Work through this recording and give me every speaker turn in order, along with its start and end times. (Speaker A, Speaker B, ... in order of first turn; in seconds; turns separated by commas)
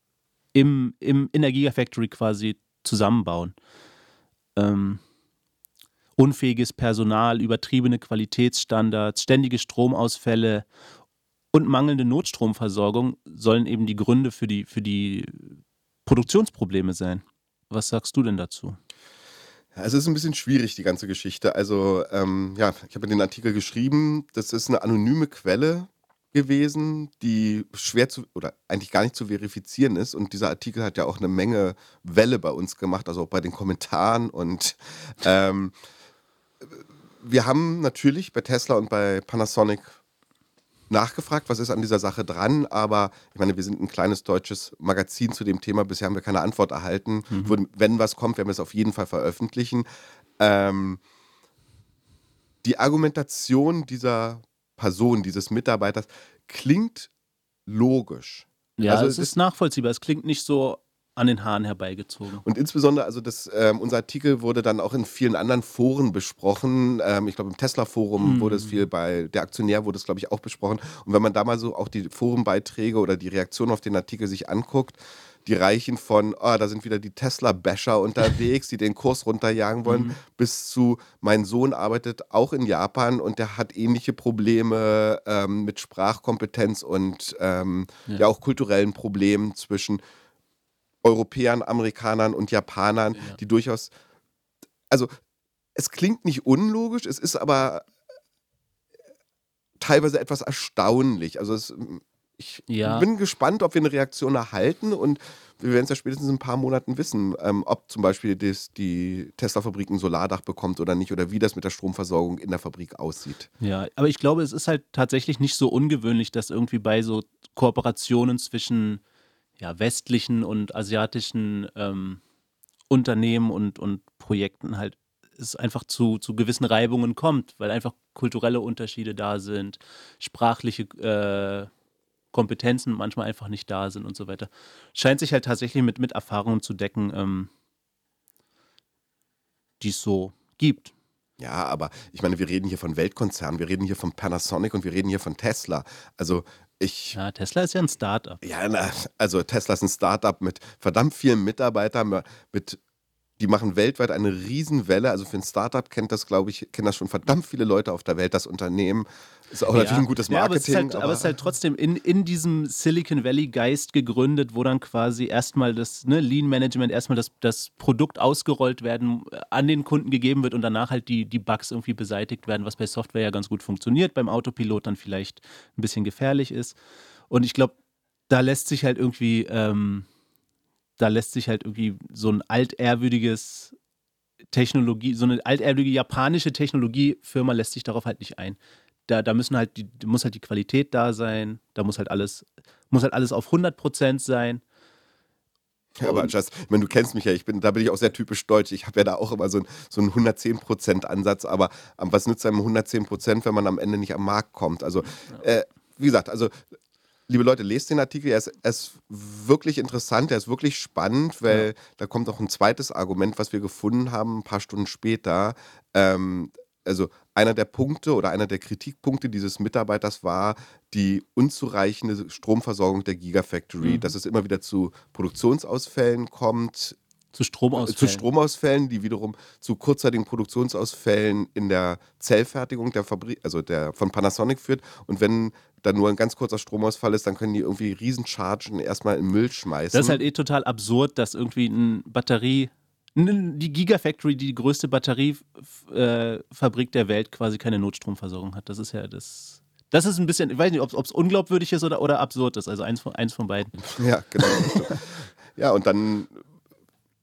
Speaker A: 0.5-3.5, Speaker A: 4.6-5.0, Speaker A: 6.2-10.7, Speaker A: 11.5-18.8, Speaker B: 19.8-35.8, Speaker B: 36.6-40.0, Speaker B: 40.9-49.9, Speaker A: 47.3-47.6, Speaker B: 50.4-51.0, Speaker B: 52.6-57.1, Speaker B: 57.7-59.3, Speaker A: 58.8-62.5, Speaker B: 62.4-90.0, Speaker A: 68.2-68.9, Speaker A: 79.9-80.2, Speaker B: 91.0-93.9, Speaker B: 95.8-97.9, Speaker B: 99.8-113.5, Speaker A: 102.7-103.1, Speaker A: 113.6-119.0, Speaker A: 119.6-122.2, Speaker A: 122.9-131.7, Speaker A: 132.3-137.5, Speaker A: 139.8-140.9, Speaker B: 141.4-147.2, Speaker A: 147.2-148.4, Speaker B: 148.4-152.8, Speaker B: 153.4-161.4, Speaker A: 159.7-176.8, Speaker A: 177.3-177.8, Speaker A: 178.3-180.1, Speaker A: 181.0-183.7, Speaker A: 184.5-188.6, Speaker A: 189.1-194.6, Speaker B: 196.0-206.6, Speaker A: 196.0-196.3, Speaker B: 207.3-227.0, Speaker A: 223.8-224.1, Speaker A: 227.3-228.2, Speaker B: 227.8-240.2, Speaker A: 239.9-253.8, Speaker B: 253.8-256.4, Speaker A: 254.4-255.0